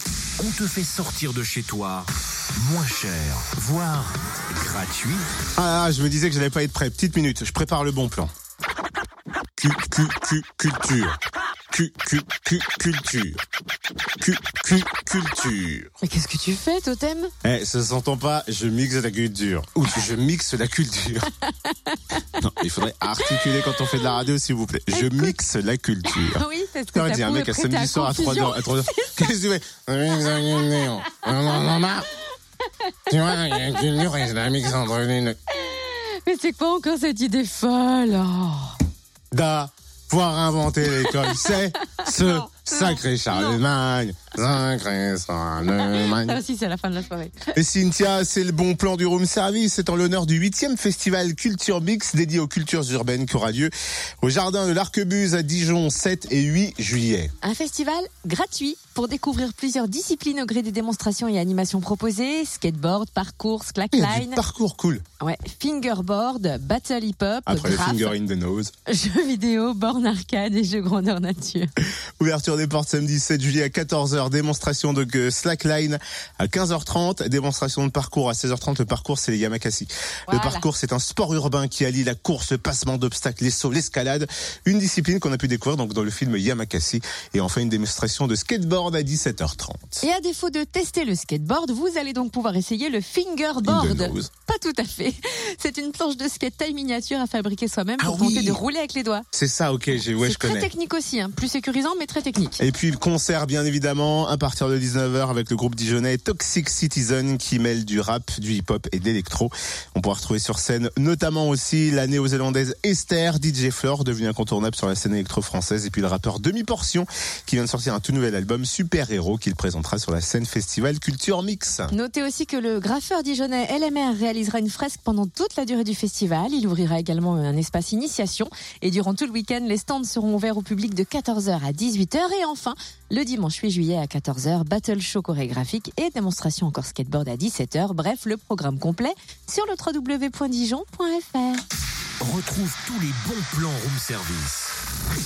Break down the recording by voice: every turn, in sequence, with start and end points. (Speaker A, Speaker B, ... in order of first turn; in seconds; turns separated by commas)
Speaker A: 0.4-5.3, Speaker B: 5.6-8.3, Speaker B: 9.6-11.2, Speaker B: 11.7-13.4, Speaker B: 14.2-15.9, Speaker C: 16.0-17.3, Speaker B: 17.4-21.3, Speaker C: 21.5-22.4, Speaker B: 22.4-32.1, Speaker C: 24.9-25.3, Speaker C: 26.1-29.2, Speaker C: 30.3-31.7, Speaker C: 32.8-33.9, Speaker B: 33.1-35.4, Speaker C: 35.5-38.8, Speaker B: 39.3-46.4, Speaker C: 40.9-43.6, Speaker C: 45.6-47.5, Speaker B: 47.5-57.3, Speaker C: 57.4-64.4, Speaker B: 63.9-65.0, Speaker C: 65.2-68.1, Speaker B: 67.5-68.7, Speaker C: 68.8-71.7, Speaker B: 72.2-90.0, Speaker C: 80.3-80.6, Speaker C: 90.0-99.2, Speaker B: 93.6-94.3, Speaker B: 98.0-98.6, Speaker B: 99.3-100.7, Speaker C: 100.2-102.6, Speaker B: 102.6-121.9, Speaker C: 121.9-141.6, Speaker A: 142.2-144.7